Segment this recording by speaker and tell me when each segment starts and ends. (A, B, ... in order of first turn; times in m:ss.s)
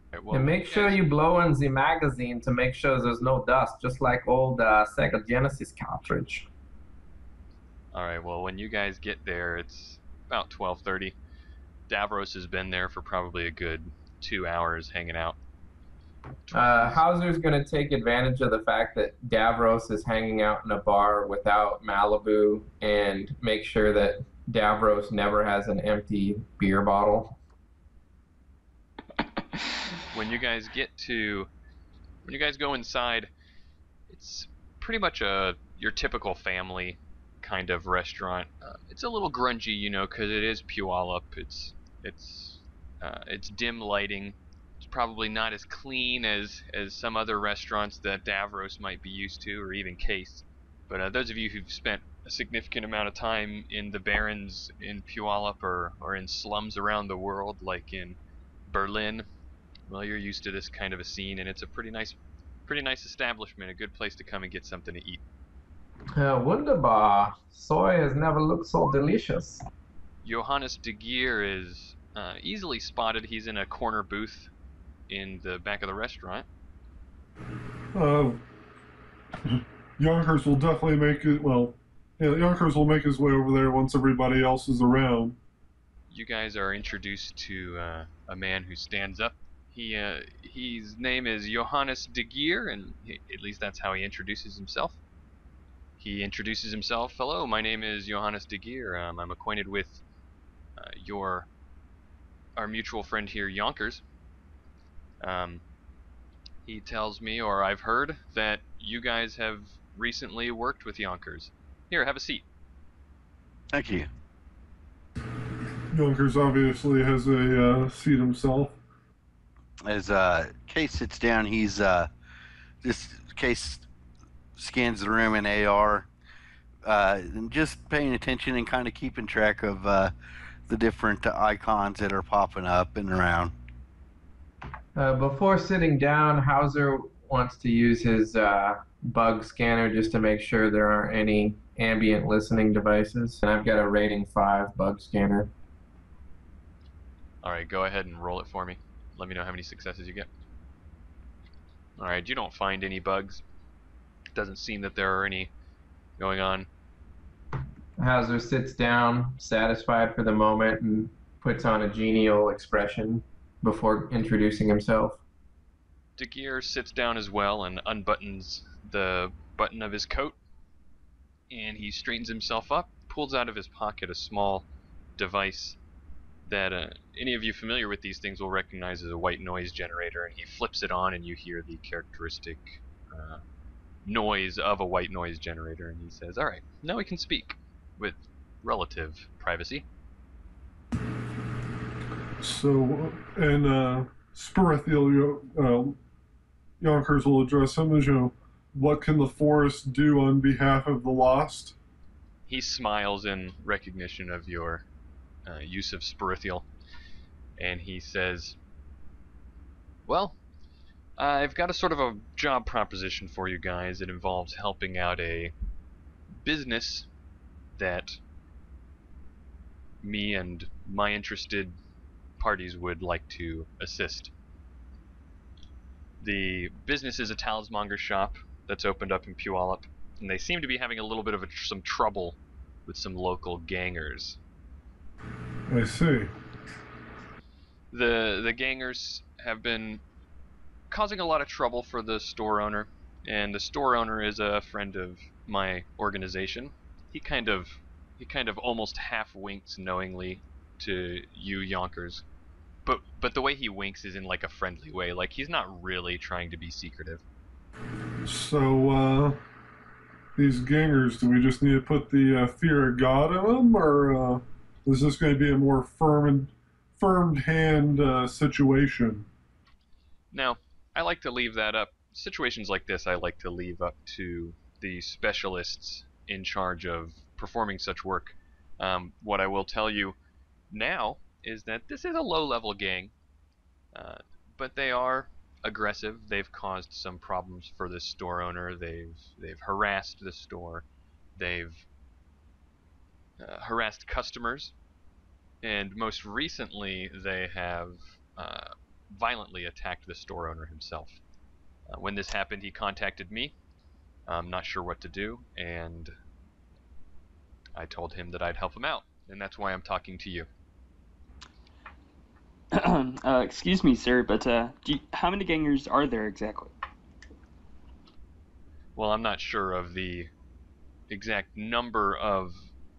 0:00.1-0:01.0 A
0:00.3-0:06.5 B
0:07.9-0:11.2 A
0:11.9-0:15.4 A
0:16.5-0:17.0 A
0:16.5-0:27.4 B
0:30.1-0:31.5 A
0:32.2-0:33.3 A
0:34.1-0:59.3 A
0:59.9-1:05.2 A
1:06.1-1:09.6 B
1:10.2-1:14.5 A
1:15.1-1:16.5 A
1:17.9-1:18.4 C
1:19.4-1:25.4 C
1:26.1-1:35.0 A
1:36.0-1:40.0 A
1:40.8-1:41.5 A
1:42.6-1:44.0 A
1:45.2-1:45.6 A
1:46.6-1:52.4 A
1:53.7-1:54.1 D
1:55.9-1:58.8 C
1:59.8-2:02.1 D
2:02.8-2:03.8 D
2:04.6-2:06.1 D
2:06.8-2:10.1 D
2:10.7-2:13.5 D
2:15.0-2:25.5 B
2:27.4-2:30.3 A
2:32.0-2:33.4 A
2:34.3-2:35.5 A
2:36.2-2:36.7 A
2:38.0-2:45.2 B
2:46.2-2:50.4 A
2:51.5-2:55.8 A
2:56.4-3:03.4 A
3:04.0-3:09.8 A
3:12.4-3:16.0 C
3:16.8-3:21.7 C
3:22.5-3:24.8 A
3:25.4-3:26.7 A
3:27.6-3:28.6 A
3:30.0-3:30.4 A
3:31.2-3:35.5 A
3:36.3-3:37.1 A
3:37.8-3:38.2 A
3:40.0-3:41.8 A
3:42.4-3:44.3 A
3:46.2-3:54.4 A
3:55.7-3:56.3 C
3:57.9-4:00.0 A
4:00.9-4:12.2 A
4:12.8-4:17.2 A
4:18.2-4:19.4 C
4:20.4-4:29.3 C
4:30.3-4:40.2 A
4:40.7-4:43.1 A
4:43.9-4:50.8 A
4:51.4-4:51.8 A
4:53.4-4:54.7 A
4:55.6-5:01.2 A
5:01.9-5:03.5 A
5:04.3-5:06.1 A
5:07.8-5:10.5 A
5:12.7-5:16.7 E
5:19.0-5:20.3 A
5:21.1-5:22.7 A